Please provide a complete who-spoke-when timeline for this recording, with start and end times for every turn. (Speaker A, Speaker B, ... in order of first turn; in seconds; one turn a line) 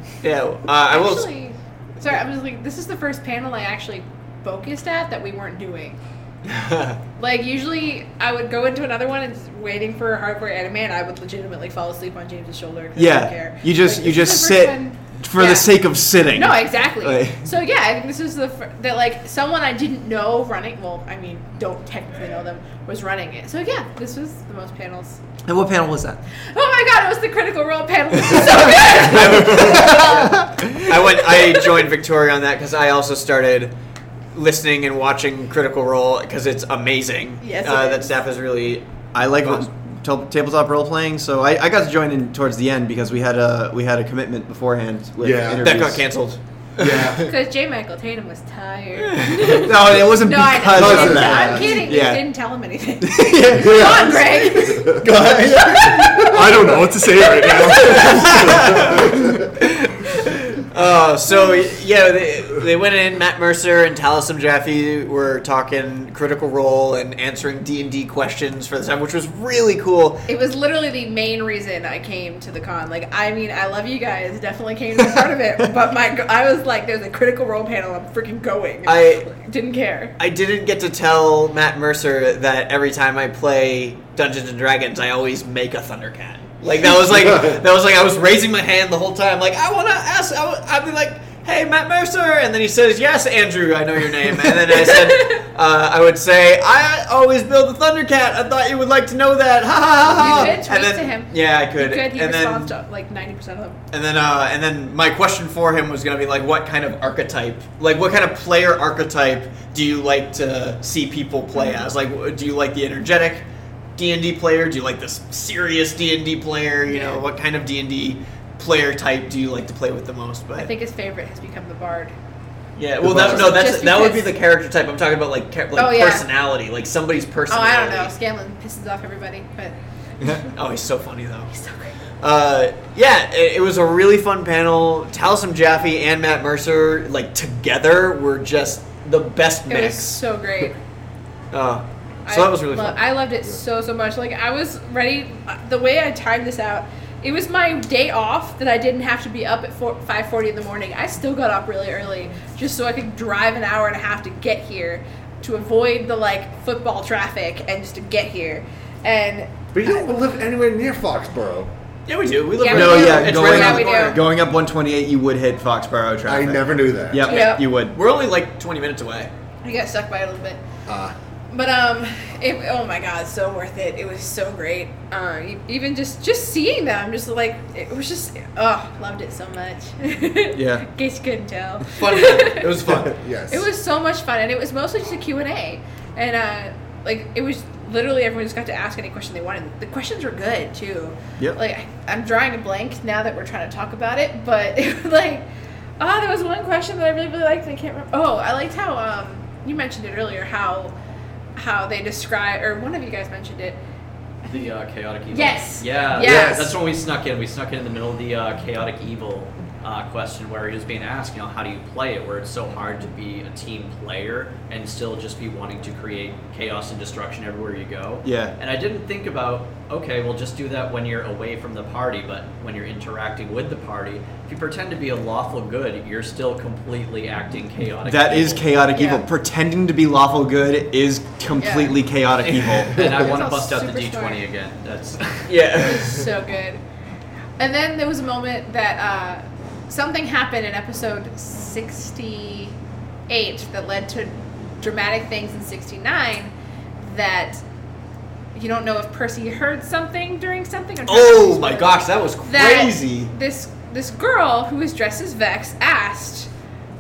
Speaker A: 0.2-1.3
Speaker B: 0.9-6.0
Speaker A: 6.5-7.0
Speaker B: 7.2-15.7
Speaker C: 13.0-17.4
Speaker B: 16.3-25.2
Speaker C: 25.5-26.2
Speaker B: 26.5-30.1
Speaker A: 28.4-33.8
Speaker A: 34.3-39.6
Speaker B: 37.4-38.1
Speaker C: 39.1-46.1
Speaker D: 45.2-45.7
Speaker A: 45.6-47.1
Speaker D: 46.8-47.2
Speaker B: 47.2-55.0
Speaker C: 49.4-52.3
Speaker D: 50.7-51.9
Speaker C: 53.0-54.0
Speaker D: 53.5-55.3
Speaker C: 55.0-56.0
Speaker A: 55.1-56.2
Speaker D: 55.9-56.8
Speaker E: 56.3-59.1
Speaker A: 57.7-59.1
Speaker A: 59.6-70.2
Speaker B: 70.3-80.2
Speaker A: 78.9-79.2
Speaker A: 80.2-102.7
Speaker B: 94.9-95.4
Speaker B: 100.1-103.8
Speaker A: 103.9-113.5
Speaker B: 111.5-111.9
Speaker A: 114.0-120.7
Speaker B: 116.9-117.2
Speaker B: 120.5-122.1
Speaker A: 122.8-128.1
Speaker D: 123.0-123.6
Speaker B: 123.2-124.4
Speaker B: 125.7-126.3
Speaker B: 127.5-129.8
Speaker A: 130.3-131.5
Speaker A: 132.2-140.2
Speaker B: 139.7-140.8
Speaker A: 141.5-143.0
Speaker B: 142.3-160.2
Speaker D: 159.7-161.7
Speaker A: 162.1-164.2
Speaker B: 162.6-164.2
Speaker C: 162.7-168.0
Speaker D: 166.3-167.2
Speaker B: 167.2-167.7
Speaker A: 167.3-169.3
Speaker B: 169.6-170.6
Speaker D: 170.9-171.1
Speaker B: 171.5-195.5
Speaker A: 181.9-183.2
Speaker D: 183.2-183.7
Speaker B: 196.0-200.9
Speaker B: 201.6-203.8
Speaker F: 204.4-228.7
Speaker B: 205.3-206.6
Speaker D: 206.2-206.8
Speaker C: 218.2-218.6
Speaker C: 228.1-233.2
Speaker B: 228.9-229.2
Speaker B: 231.6-231.9
Speaker F: 232.6-235.5
Speaker B: 233.0-234.4
Speaker A: 235.5-236.3
Speaker B: 235.7-236.8
Speaker B: 237.6-242.8
Speaker B: 243.3-247.6
Speaker B: 248.5-256.5
Speaker A: 251.1-253.3